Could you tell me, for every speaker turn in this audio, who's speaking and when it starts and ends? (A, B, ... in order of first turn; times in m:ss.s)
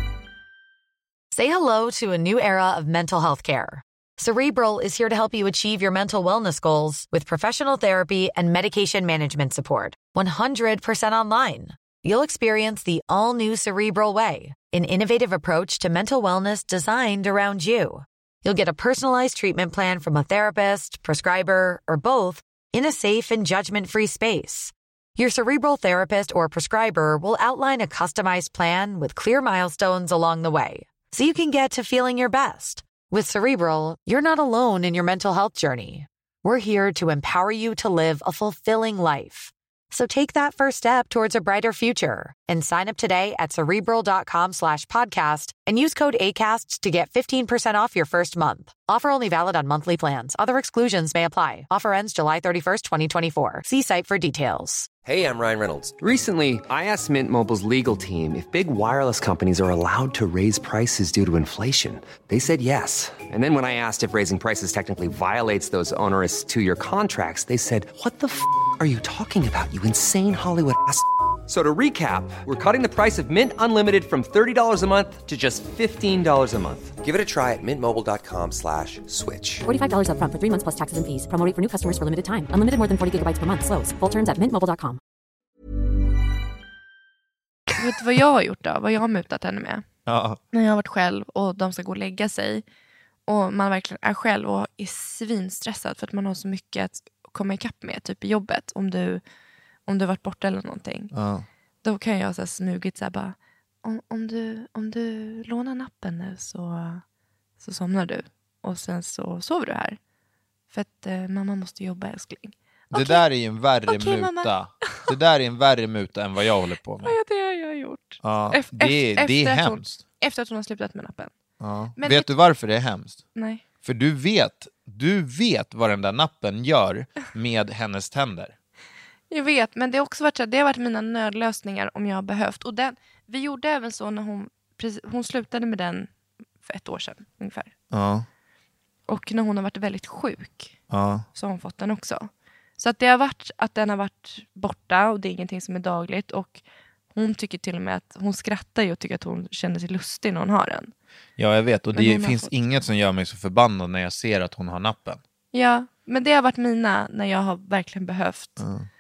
0:01.3-0:54.9 A
0:55.0-1:19.6 B
1:19.6-1:25.0 C
1:27.8-1:29.8 D
1:30.1-1:30.4 E
1:30.5-1:32.6 D
1:33.3-1:39.2 D
1:39.9-1:41.1 D
1:41.1-1:41.5 E
1:41.8-1:47.0 D
1:47.6-1:50.0 D
1:50.7-1:53.2 D
1:52.9-1:57.2 E
1:53.9-1:55.1 D
1:57.0-2:01.3 D
1:58.2-2:00.0 E
2:01.6-2:03.2 E
2:02.0-2:02.3 D
2:03.4-2:03.6 D
2:03.8-2:08.6 E
2:09.3-2:16.1 D
2:16.6-2:17.7 D
2:17.9-2:18.3 E
2:19.1-2:20.8 D
2:20.9-2:21.3 E
2:21.3-2:26.6 D
2:27.1-2:30.9 D
2:31.4-2:35.2 E
2:31.9-2:32.5 D
2:35.5-2:38.6 D
2:38.6-2:38.9 E